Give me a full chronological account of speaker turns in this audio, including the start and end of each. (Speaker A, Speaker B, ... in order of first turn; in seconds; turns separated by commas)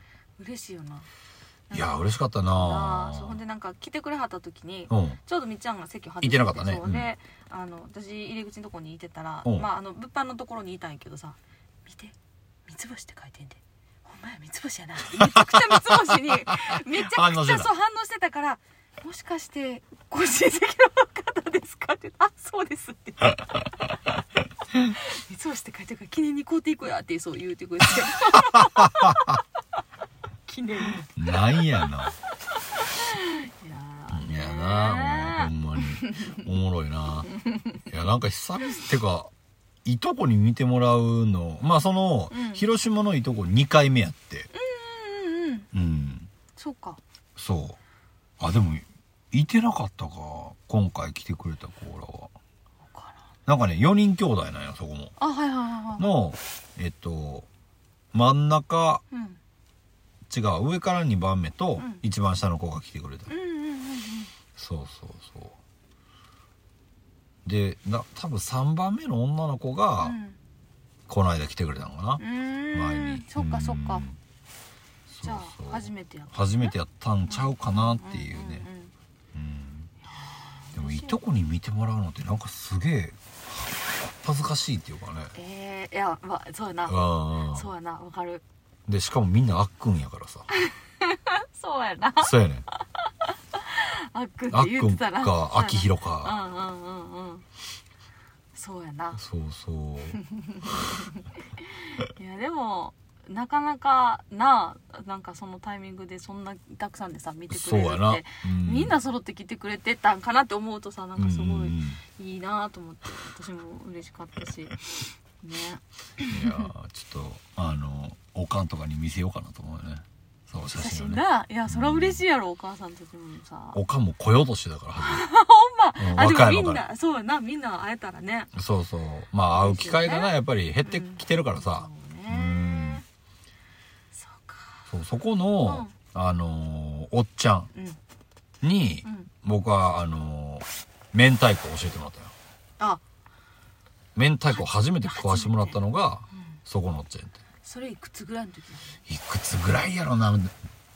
Speaker A: 0.4-1.1, Speaker A: 1.7-23.7, Speaker B: 1.7-3.4, Speaker B: 4.9-5.2, Speaker B: 6.2-7.1, Speaker B: 15.1-17.7, Speaker A: 24.9-29.3, Speaker B: 28.4-29.4, Speaker A: 30.4-31.8, Speaker B: 31.1-32.1, Speaker A: 32.5-36.4, Speaker B: 34.1-37.3, Speaker A: 37.4-37.8, Speaker B: 37.9-39.3, Speaker B: 39.8-44.5, Speaker A: 42.3-42.6, Speaker A: 44.5-45.7, Speaker B: 45.7-46.3, Speaker A: 46.5-47.0, Speaker B: 47.4-47.8, Speaker B: 48.4-52.3, Speaker A: 52.8-53.2, Speaker B: 53.5-55.1, Speaker A: 55.2-56.1, Speaker B: 56.0-57.5, Speaker B: 58.1-59.0, Speaker A: 59.1-59.4, Speaker B: 60.3-63.3, Speaker A: 61.8-62.0, Speaker A: 63.3-64.3, Speaker B: 64.5-65.5, Speaker B: 67.4-70.2, Speaker A: 70.0-70.4, Speaker B: 71.1-74.2, Speaker A: 72.2-74.0, Speaker B: 75.1-78.7, Speaker A: 75.2-76.7, Speaker A: 77.3-78.9, Speaker B: 79.3-79.9, Speaker A: 80.1-81.2, Speaker B: 80.7-85.3, Speaker A: 85.3-88.4, Speaker B: 86.9-87.7, Speaker B: 88.9-90.5, Speaker A: 90.5-97.4, Speaker B: 92.2-92.7, Speaker B: 94.5-96.4, Speaker A: 98.5-99.2, Speaker B: 99.1-100.2, Speaker A: 100.2-116.7, Speaker B: 107.5-109.0, Speaker B: 111.2-112.0, Speaker B: 116.3-122.2, Speaker A: 120.7-123.8, Speaker B: 123.7-125.2, Speaker A: 125.0-128.5, Speaker B: 126.0-126.8, Speaker B: 128.5-133.0, Speaker A: 129.5-133.0, Speaker A: 134.1-134.9, Speaker B: 134.9-137.7, Speaker A: 135.6-135.9, Speaker A: 137.7-138.0, Speaker B: 138.6-142.3, Speaker B: 144.2-147.4, Speaker A: 144.5-145.8, Speaker A: 147.6-149.0, Speaker B: 149.1-150.5